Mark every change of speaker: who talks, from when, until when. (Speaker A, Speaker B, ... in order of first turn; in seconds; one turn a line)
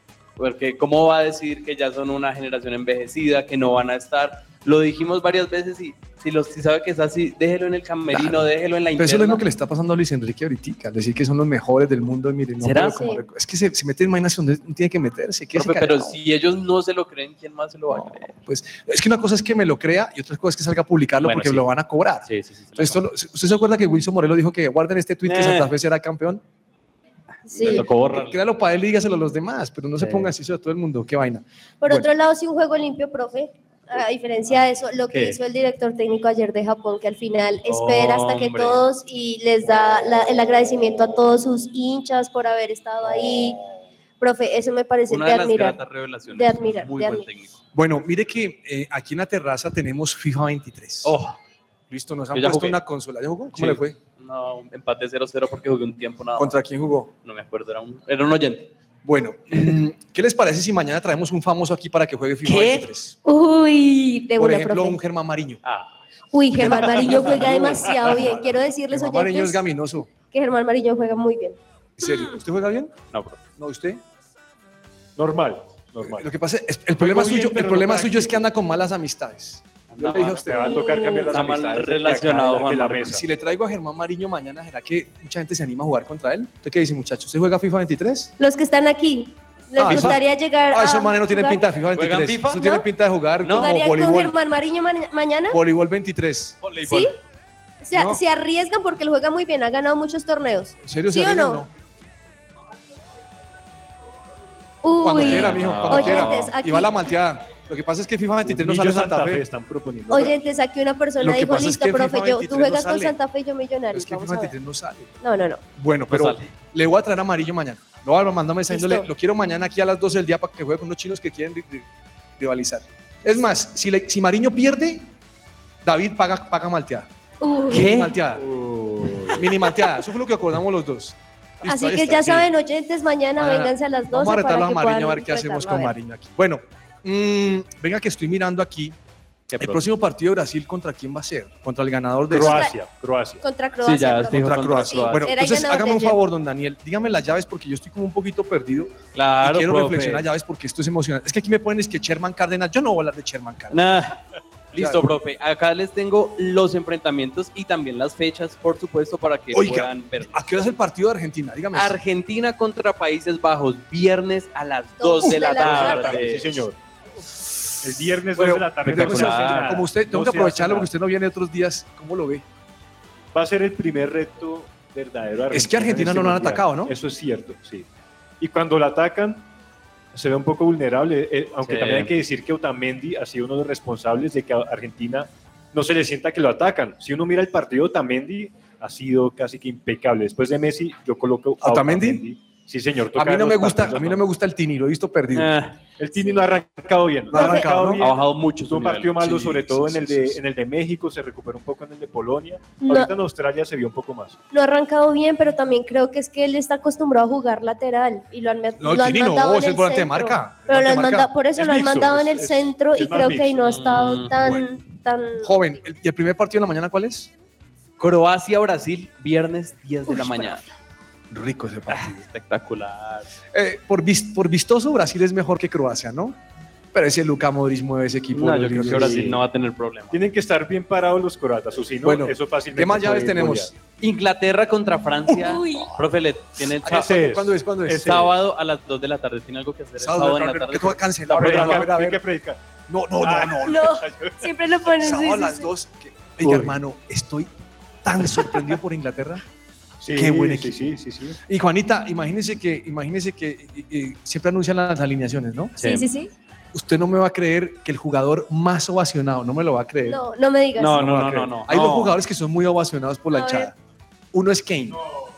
Speaker A: 0.4-9.4
Speaker B: 8.1-16.2
Speaker A: 12.6-13.0
Speaker C: 13.0-13.2
Speaker A: 15.6-18.4
Speaker B: 17.9-26.4
Speaker A: 21.2-21.7
Speaker A: 22.3-23.0
Speaker A: 25.2-25.7
Speaker C: 27.5-27.8
Speaker A: 27.5-28.4
Speaker B: 27.6-32.1
Speaker A: 30.0-30.3
Speaker C: 31.8-43.6
Speaker A: 35.1-35.4
Speaker A: 37.7-38.8
Speaker C: 44.2-45.8
Speaker A: 45.1-47.6
Speaker C: 46.3-47.3
Speaker B: 47.7-51.2
Speaker A: 51.0-51.4
Speaker B: 51.9-54.0
Speaker A: 52.3-52.8
Speaker A: 53.5-56.6
Speaker B: 56.4-57.1
Speaker A: 57.2-58.7
Speaker B: 59.0-63.2
Speaker A: 62.5-62.9
Speaker C: 63.2-65.0
Speaker B: 64.4-65.6
Speaker A: 65.6-65.9
Speaker C: 66.3-69.6
Speaker B: 66.5-70.1
Speaker C: 70.3-72.2
Speaker B: 72.0-73.0
Speaker A: 73.1-73.4
Speaker B: 73.6-74.0
Speaker D: 75.2-76.3
Speaker B: 76.0-81.2
Speaker D: 77.0-78.5
Speaker A: 79.9-80.6
Speaker D: 80.1-83.2
Speaker C: 80.6-81.3
Speaker A: 81.3-83.2
Speaker B: 83.0-88.3
Speaker C: 88.4-91.6
Speaker B: 89.8-94.4
Speaker A: 89.8-90.2
Speaker A: 91.9-92.8
Speaker A: 93.4-93.7
Speaker C: 93.6-95.6
Speaker B: 95.5-96.6
Speaker A: 96.6-97.1
Speaker C: 96.8-97.1
Speaker C: 97.8-101.7
Speaker B: 97.9-98.2
Speaker B: 100.8-101.7
Speaker C: 104.8-106.9
Speaker B: 105.0-109.5
Speaker A: 105.2-106.5
Speaker D: 108.4-110.4
Speaker C: 110.1-114.5
Speaker B: 111.2-113.2
Speaker B: 113.9-115.2
Speaker C: 115.2-115.6
Speaker B: 115.8-121.9
Speaker A: 116.1-116.5
Speaker C: 118.7-119.1
Speaker B: 122.4-125.1
Speaker B: 125.8-127.1
Speaker C: 127.4-127.9
Speaker A: 127.7-128.2
Speaker B: 127.7-128.5
Speaker D: 128.4-129.4
Speaker B: 129.3-132.5
Speaker C: 131.7-135.9
Speaker B: 133.4-139.0
Speaker A: 139.5-139.8
Speaker B: 139.6-142.7
Speaker D: 142.3-143.4
Speaker C: 142.4-142.7
Speaker C: 143.4-146.2
Speaker A: 143.8-145.3
Speaker B: 144.3-153.9
Speaker A: 149.2-150.3
Speaker A: 153.7-154.2
Speaker A: 154.7-160.6
Speaker B: 154.8-155.1
Speaker B: 159.5-162.0
Speaker A: 161.7-166.6
Speaker C: 165.0-166.2
Speaker B: 165.2-166.0
Speaker D: 165.5-166.8
Speaker D: 167.8-170.9
Speaker B: 168.3-172.4
Speaker A: 168.8-169.9
Speaker D: 173.3-177.9
Speaker B: 175.5-176.9
Speaker D: 178.4-179.5
Speaker D: 180.1-194.2
Speaker A: 181.6-182.1
Speaker B: 191.6-192.2
Speaker B: 193.1-195.5
Speaker A: 195.3-195.8
Speaker D: 196.0-204.4
Speaker C: 196.2-196.4
Speaker B: 197.3-198.1
Speaker C: 197.3-197.7
Speaker A: 198.0-199.7
Speaker B: 199.3-200.4
Speaker C: 202.8-203.1
Speaker C: 204.5-215.7
Speaker B: 208.8-212.3
Speaker D: 211.7-213.7
Speaker A: 213.6-214.3
Speaker B: 214.3-214.7
Speaker B: 215.4-217.3
Speaker A: 218.0-220.6
Speaker B: 221.3-222.2
Speaker A: 221.9-223.3
Speaker B: 223.5-226.4
Speaker B: 226.9-229.3
Speaker A: 228.3-230.2
Speaker D: 228.8-229.4
Speaker D: 230.1-233.7
Speaker B: 232.0-233.7
Speaker A: 234.0-237.2
Speaker C: 235.3-235.9
Speaker B: 236.8-238.2
Speaker D: 236.9-238.3
Speaker A: 238.0-241.9
Speaker B: 240.0-242.2
Speaker D: 241.3-242.6
Speaker B: 242.9-244.0
Speaker D: 243.2-244.5
Speaker C: 243.6-245.7
Speaker B: 245.0-247.5
Speaker B: 248.0-249.4
Speaker D: 250.0-251.4
Speaker B: 250.1-250.9
Speaker B: 251.5-255.8
Speaker A: 255.8-256.1
Speaker C: 255.8-256.3
Speaker B: 256.7-260.2
Speaker C: 260.1-261.0
Speaker A: 260.8-262.2
Speaker B: 260.9-263.8
Speaker C: 263.3-263.7
Speaker B: 264.3-265.0